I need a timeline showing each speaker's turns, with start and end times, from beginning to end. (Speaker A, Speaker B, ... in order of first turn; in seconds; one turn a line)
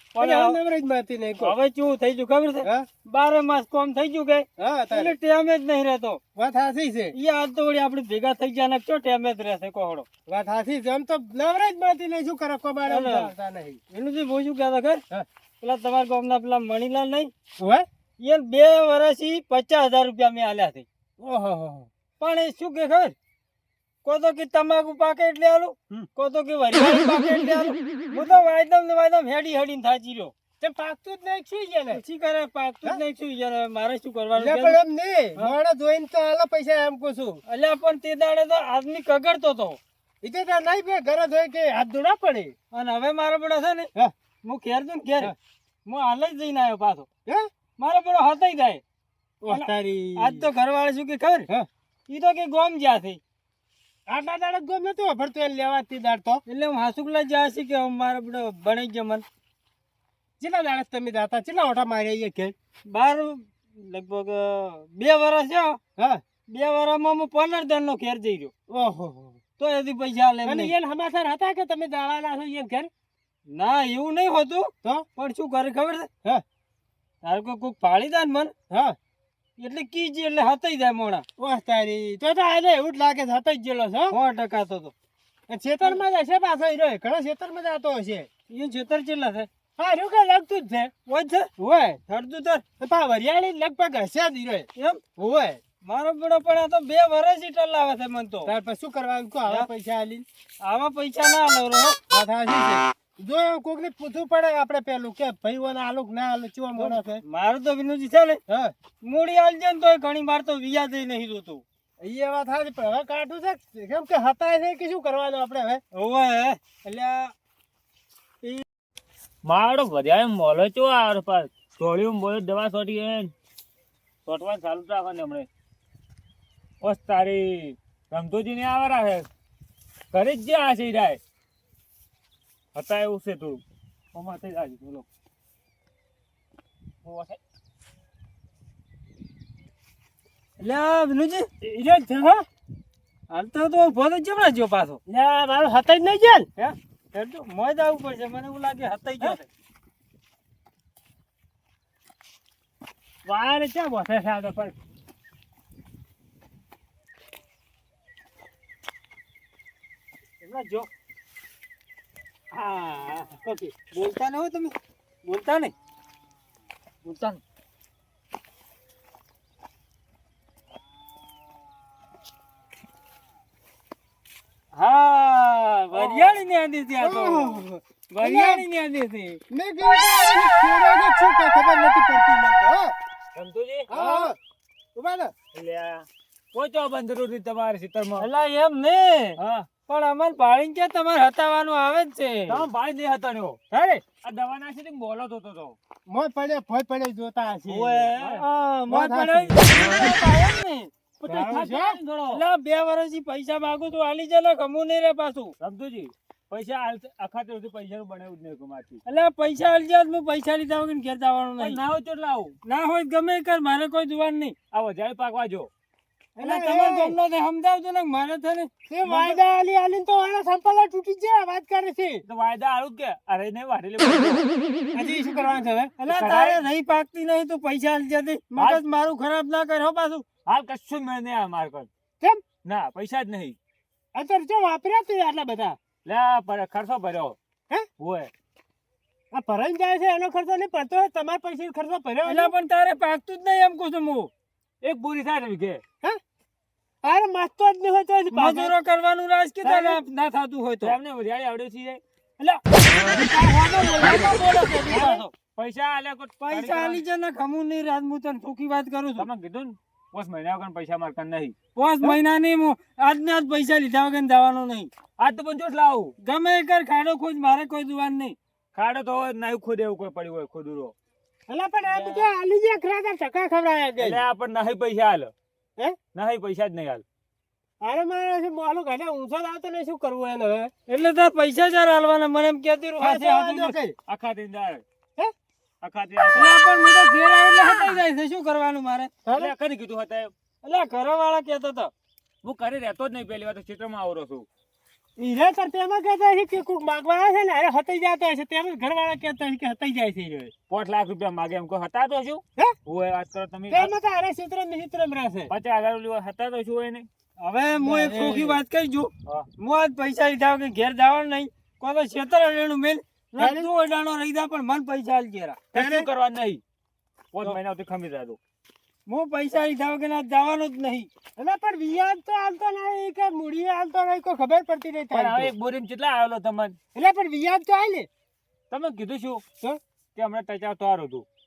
Speaker A: 0.1-0.6
Speaker B: 0.2-1.5
Speaker A: 1.4-6.2
Speaker B: 4.6-5.1
Speaker B: 6.3-7.1
Speaker A: 7.1-10.1
Speaker B: 10.3-13.8
Speaker A: 12.9-13.3
Speaker A: 13.9-15.0
Speaker A: 15.6-17.3
Speaker B: 17.6-17.8
Speaker A: 18.2-20.9
Speaker B: 21.2-21.9
Speaker A: 22.2-23.1
Speaker A: 24.0-30.3
Speaker B: 30.6-32.0
Speaker A: 31.9-34.8
Speaker B: 34.4-37.4
Speaker A: 37.5-39.8
Speaker B: 40.2-42.5
Speaker A: 42.7-43.9
Speaker A: 44.4-45.3
Speaker A: 45.9-47.1
Speaker A: 47.8-48.8
Speaker B: 49.4-50.5
Speaker A: 49.5-51.5
Speaker A: 52.1-53.2
Speaker B: 54.1-56.4
Speaker A: 56.5-59.2
Speaker B: 60.4-62.5
Speaker A: 62.9-65.8
Speaker A: 66.5-68.5
Speaker B: 68.7-69.4
Speaker A: 69.6-70.7
Speaker B: 70.4-72.9
Speaker A: 73.5-76.1
Speaker A: 77.2-78.5
Speaker B: 78.7-79.0
Speaker A: 79.6-81.2
Speaker B: 81.4-84.2
Speaker A: 84.1-84.9
Speaker B: 85.5-88.3
Speaker A: 88.5-89.5
Speaker B: 89.8-90.9
Speaker A: 91.0-91.5
Speaker B: 91.6-92.0
Speaker A: 92.1-92.6
Speaker B: 92.8-95.6
Speaker A: 94.7-95.0
Speaker A: 95.8-98.5
Speaker B: 98.5-100.2
Speaker A: 100.6-102.0
Speaker B: 102.1-107.2
Speaker A: 106.8-108.4
Speaker B: 108.5-108.7
Speaker A: 109.0-111.6
Speaker B: 112.0-115.8
Speaker A: 115.9-117.3
Speaker C: 119.4-123.3
Speaker C: 124.2-125.5
Speaker C: 126.8-129.3
Speaker C: 130.1-131.2
Speaker C: 132.7-133.6
Speaker C: 134.1-135.1
Speaker C: 137.0-137.4
Speaker A: 140.6-141.5
Speaker B: 141.6-142.4
Speaker A: 143.3-145.0
Speaker B: 145.1-146.5
Speaker A: 146.6-149.4
Speaker B: 153.2-154.7
Speaker A: 160.4-160.9
Speaker A: 162.5-165.7
Speaker A: 167.0-167.4
Speaker A: 174.7-179.4
Speaker C: 175.9-176.4
Speaker B: 177.0-178.7
Speaker B: 179.5-182.9
Speaker C: 183.3-184.2
Speaker B: 183.9-184.4
Speaker B: 184.9-185.3
Speaker C: 185.5-188.3
Speaker A: 188.2-192.7
Speaker C: 189.4-189.7
Speaker C: 192.5-193.6
Speaker A: 193.7-194.0
Speaker C: 194.2-195.8
Speaker B: 196.1-198.1
Speaker C: 197.7-198.4
Speaker A: 198.2-201.7
Speaker B: 198.9-199.6
Speaker B: 201.2-202.0
Speaker C: 201.3-202.4
Speaker A: 202.3-205.5
Speaker C: 205.6-209.0
Speaker A: 209.1-211.8
Speaker C: 211.6-212.6
Speaker A: 212.6-214.5
Speaker C: 214.7-215.7
Speaker B: 216.3-217.2
Speaker A: 216.4-219.4
Speaker B: 218.9-222.2
Speaker C: 222.2-224.5
Speaker B: 224.9-225.9
Speaker A: 226.0-230.2
Speaker C: 226.1-226.6
Speaker C: 228.6-228.8
Speaker C: 230.4-231.9
Speaker C: 232.6-233.6
Speaker B: 234.1-235.8
Speaker C: 236.0-237.4
Speaker C: 238.0-238.3
Speaker B: 239.3-242.5
Speaker A: 242.2-244.3
Speaker C: 244.8-245.8
Speaker B: 247.0-248.7
Speaker A: 248.3-250.9
Speaker C: 249.7-249.9
Speaker C: 250.8-252.0
Speaker A: 252.4-255.3
Speaker B: 254.0-255.1
Speaker C: 254.9-257.0
Speaker A: 256.4-259.3
Speaker C: 259.2-261.5
Speaker A: 261.8-264.9
Speaker C: 265.2-266.1
Speaker A: 266.2-268.4
Speaker C: 268.7-270.9
Speaker B: 271.5-274.2
Speaker A: 271.9-272.3
Speaker C: 274.0-275.3
Speaker C: 276.1-277.0
Speaker B: 277.8-280.7
Speaker A: 280.9-283.8
Speaker B: 283.0-283.9
Speaker C: 284.1-284.8
Speaker C: 285.8-286.5
Speaker A: 286.3-289.1
Speaker B: 289.2-289.5
Speaker C: 289.3-290.3
Speaker A: 290.6-291.9
Speaker C: 292.4-294.4
Speaker B: 295.2-300.5
Speaker C: 300.7-303.9
Speaker B: 303.7-305.5
Speaker C: 305.5-307.1
Speaker A: 307.4-315.6
Speaker B: 307.8-308.6
Speaker B: 313.4-313.7
Speaker C: 315.7-316.6
Speaker B: 315.7-316.1
Speaker C: 317.3-318.4
Speaker A: 319.1-321.1
Speaker B: 321.4-325.5
Speaker C: 325.1-326.8
Speaker B: 326.9-328.1
Speaker C: 328.7-329.4
Speaker C: 330.1-331.2